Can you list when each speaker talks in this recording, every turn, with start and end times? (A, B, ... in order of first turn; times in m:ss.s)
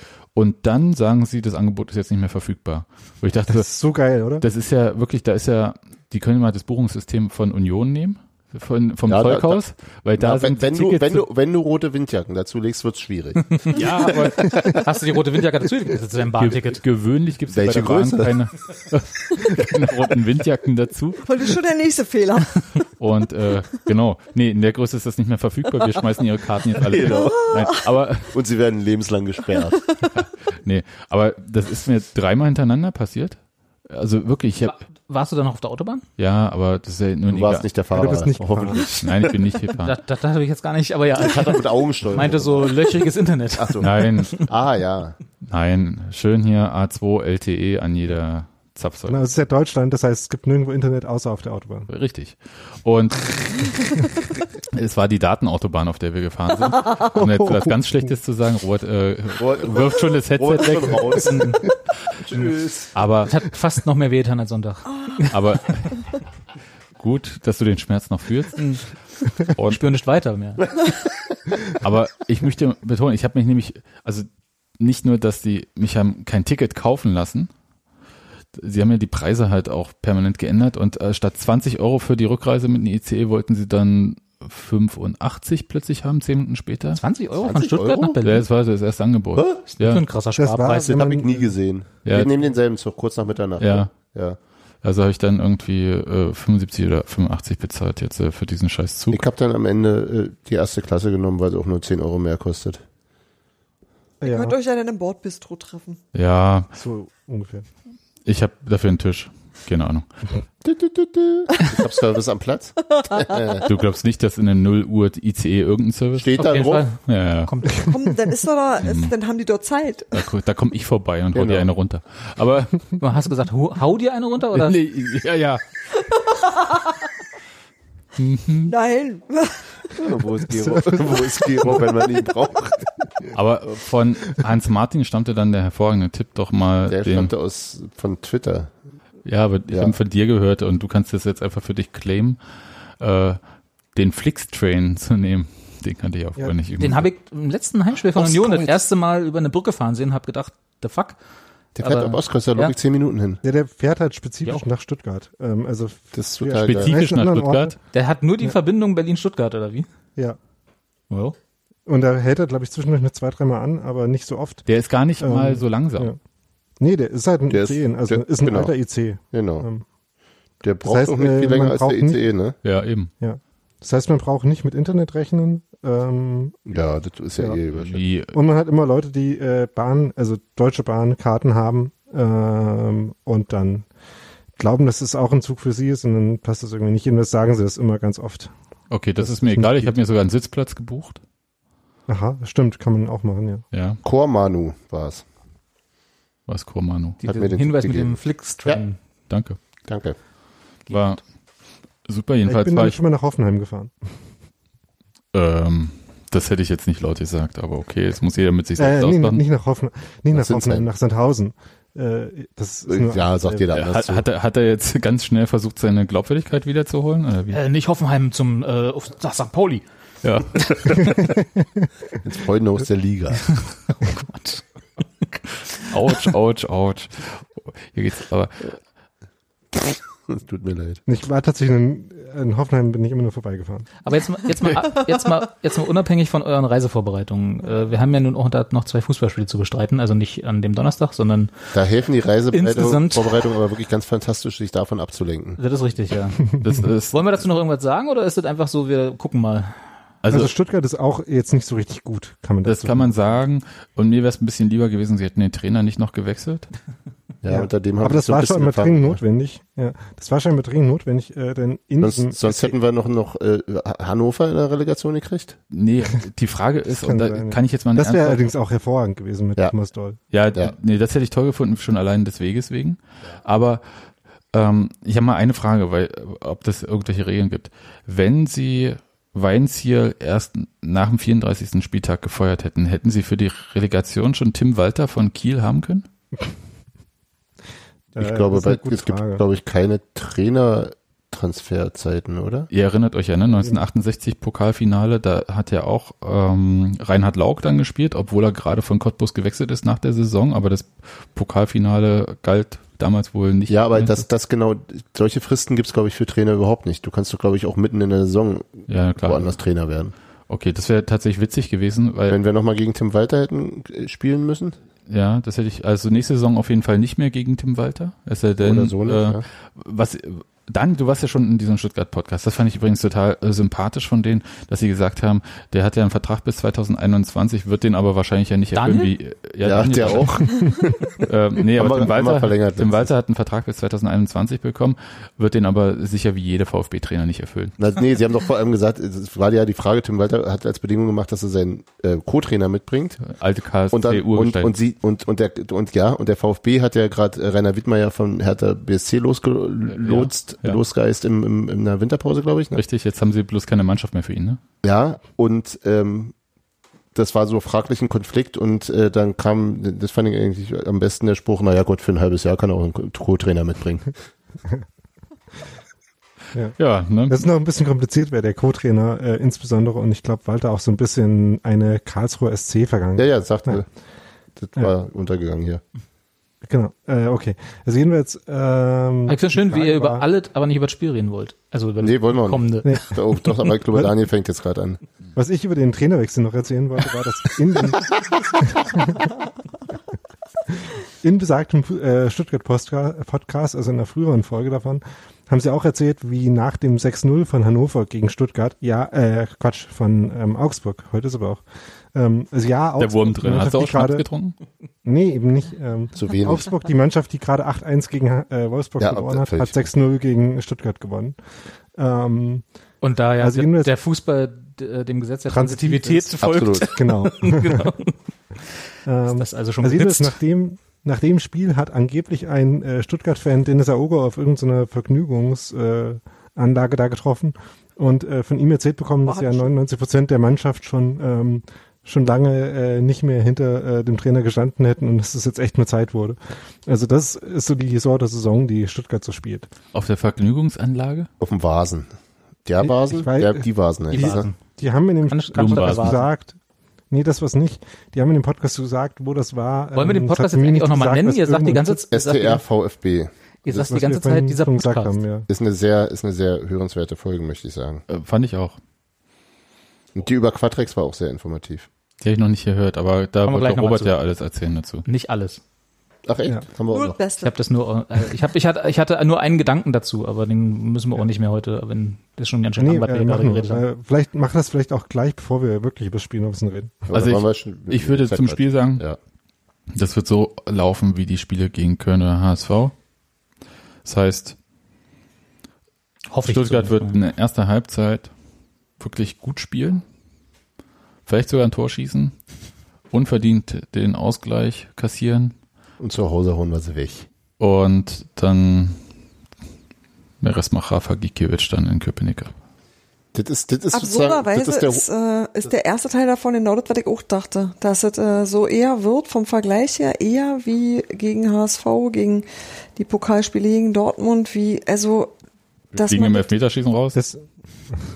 0:00.4-0:03.7 A
0:03.5-0:04.4 B
0:04.4-0:11.2 A
0:09.1-0:09.6 C
0:10.2-0:13.8 C
0:13.6-0:16.8 D
0:13.7-0:14.8 A
0:14.4-0:14.8 C
0:16.4-0:21.4 A
0:17.5-0:18.4 C
0:21.2-0:22.8 E
0:23.0-0:28.4 A
0:26.8-0:27.7 C
0:27.2-0:27.8 E
0:28.3-0:29.9 C
0:30.2-0:34.8 A
0:34.7-0:36.1 D
0:36.2-0:37.7 A
0:37.3-0:39.4 C
0:37.9-0:38.9 B
0:39.0-0:40.0 A
0:39.8-0:44.1 D
0:41.2-0:42.9 C
0:43.6-0:45.2 C
0:43.8-0:44.4 A
0:45.4-0:49.2 A
0:49.1-0:51.9 B
0:51.9-0:54.2 A
0:54.7-1:01.2 A
0:57.2-0:57.7 B
0:59.4-1:01.6 C
1:01.1-1:01.6 D
1:02.2-1:02.9 C
1:02.9-1:03.4 A
1:03.3-1:05.6 D
1:04.9-1:05.2 E
1:05.3-1:06.0 A
1:07.0-1:08.7 A
1:08.6-1:08.8 D
1:09.4-1:09.8 A
1:09.7-1:10.6 D
1:10.6-1:11.2 C
1:11.7-1:14.3 A
1:14.8-1:17.5 A
1:18.6-1:27.0 A
1:26.9-1:28.4 D
1:27.4-1:28.2 C
1:28.2-1:30.0 A
1:29.4-1:29.6 C
1:29.8-1:31.2 D
1:30.4-1:31.5 B
1:31.1-1:34.4 C
1:32.0-1:32.3 A
1:33.6-1:34.0 A
1:34.8-1:39.2 A
1:39.1-1:42.8 C
1:44.2-1:44.6 B
1:44.2-1:46.0 E
1:46.1-1:46.7 A
1:46.7-1:47.6 B
1:48.3-1:50.1 A
1:50.6-1:53.7 C
1:53.6-1:57.5 A
1:56.2-1:56.9 C
1:56.4-1:57.9 D
1:57.9-2:00.1 E
1:58.8-1:59.1 A
2:00.1-2:03.0 A
2:01.3-2:01.7 C
2:03.0-2:04.8 D
2:04.5-2:05.6 A
2:06.3-2:06.8 E
2:08.2-2:08.7 A
2:08.6-2:10.0 E
2:09.9-2:13.3 C
2:10.6-2:11.2 B
2:13.3-2:17.3 A
2:16.9-2:18.7 C
2:19.2-2:22.4 A
2:19.7-2:20.0 C
2:23.0-2:23.4 A
2:24.0-2:27.1 A
2:26.8-2:31.2 D
2:28.2-2:28.7 C
2:31.8-2:33.4 C
2:31.8-2:32.8 D
2:33.4-2:37.8 B
2:36.1-2:37.0 C
2:36.6-2:37.8 A
2:37.9-2:39.9 D
2:41.1-2:41.4 D
2:41.9-2:44.7 B
2:44.7-2:46.1 A
2:45.2-2:46.2 B
2:46.8-2:49.8 B
2:47.5-2:48.7 C
2:49.3-2:49.7 C
2:50.6-2:52.6 C
2:50.8-2:52.2 B
2:52.6-2:53.1 A
2:53.2-2:56.6 B
2:56.7-2:58.0 C
2:57.8-2:58.4 A
2:58.3-3:03.9 B
3:04.6-3:08.5 B
3:08.9-3:11.2 A
3:09.2-3:10.0 B
3:12.1-3:13.6 B
3:13.7-3:14.0 A
3:14.0-3:15.2 C
3:16.5-3:17.2 A
3:17.2-3:19.0 D
3:17.2-3:18.8 C
3:19.3-3:19.6 A
3:19.9-3:20.2 C
3:20.9-3:21.2 D
3:20.9-3:21.2 A
3:22.0-3:23.0 A
3:22.4-3:23.9 B
3:25.3-3:29.4 A
3:28.8-3:33.6 B
3:30.3-3:30.9 C
3:32.9-3:34.2 C
3:33.7-3:37.6 A
3:37.5-3:39.8 D
3:40.2-3:41.2 A
3:41.6-3:41.9 B
3:42.2-3:43.6 C
3:43.5-3:44.6 D
3:45.9-3:48.8 A
3:49.9-3:51.0 C
3:51.1-3:53.9 B
3:54.0-4:01.5 D
4:01.7-4:05.6 C
4:02.5-4:03.4 D
4:05.6-4:06.4 D
4:06.6-4:07.2 A
4:07.1-4:09.8 D
4:10.2-4:10.5 A
4:10.3-4:13.3 B
4:12.6-4:16.7 A
4:17.4-4:19.2 C
4:17.5-4:22.7 B
4:22.0-4:25.6 C
4:25.7-4:28.4 A
4:26.9-4:30.2 B
4:30.3-4:33.8 A
4:34.5-4:46.0 A
4:48.2-4:49.4 B
4:48.2-4:52.7 C
4:52.7-5:04.2 A
5:03.7-5:10.1 C
5:08.9-5:09.6 A
5:10.5-5:12.4 A
5:12.3-5:14.8 C
5:15.1-5:37.8 A
5:18.6-5:19.4 C
5:28.7-5:29.1 D
5:29.6-5:30.6 C
5:31.7-5:33.1 C
5:37.8-5:43.2 C
5:43.2-5:44.8 A
5:43.9-5:52.8 C
5:49.9-5:50.8 A
5:52.8-5:54.6 A
5:54.8-5:56.3 C
5:57.2-6:04.1 C
6:06.8-6:07.4 A
6:07.3-6:13.8 B
6:13.2-6:13.9 C
6:14.6-6:15.8 C
6:16.7-6:20.3 B
6:19.3-6:23.1 D
6:22.0-6:25.0 C
6:25.4-6:29.3 B
6:30.8-6:41.6 B
6:42.1-6:44.3 B
6:43.0-6:44.6 A
6:45.0-6:51.4 B
6:46.2-6:46.7 C
6:49.0-6:49.8 C
6:52.0-6:52.6 B
6:53.0-6:58.2 D
6:53.4-6:53.9 B
6:55.5-6:56.3 B
6:56.4-6:56.9 C
6:56.9-6:57.9 B
6:59.1-7:19.7 B
6:59.3-7:00.4 D
7:09.2-7:09.7 E
7:19.9-7:21.3 A
7:21.4-7:22.1 C
7:22.6-7:24.5 C
7:22.8-7:26.6 B
7:24.1-7:24.6 D
7:25.3-7:26.3 D
7:25.6-7:26.2 A
7:27.1-7:32.0 B
7:30.0-7:32.6 D
7:32.1-7:33.8 C
7:33.6-7:35.2 D
7:33.7-7:35.5 B
7:35.5-7:38.0 C
7:38.1-7:38.8 A
7:40.2-7:41.9 C
7:42.2-7:45.0 A
7:43.4-7:44.2 D
7:45.0-7:45.6 D
7:46.3-7:47.2 C
7:46.9-7:47.6 E
7:47.4-7:53.8 D
7:52.8-7:57.0 B
7:57.1-7:59.2 C
7:57.1-7:59.0 A
7:59.9-8:02.9 A
8:04.0-8:04.6 A
8:06.3-8:07.2 D
8:06.4-8:08.3 A
8:09.0-8:10.0 A
8:11.3-8:12.3 A
8:13.1-8:15.5 A
8:16.0-8:17.3 C
8:17.6-8:19.0 A
8:20.4-8:22.5 A
8:23.3-8:25.0 C
8:23.9-8:35.3 E
8:35.9-8:37.2 A
8:35.9-8:36.5 E
8:37.2-8:37.4 B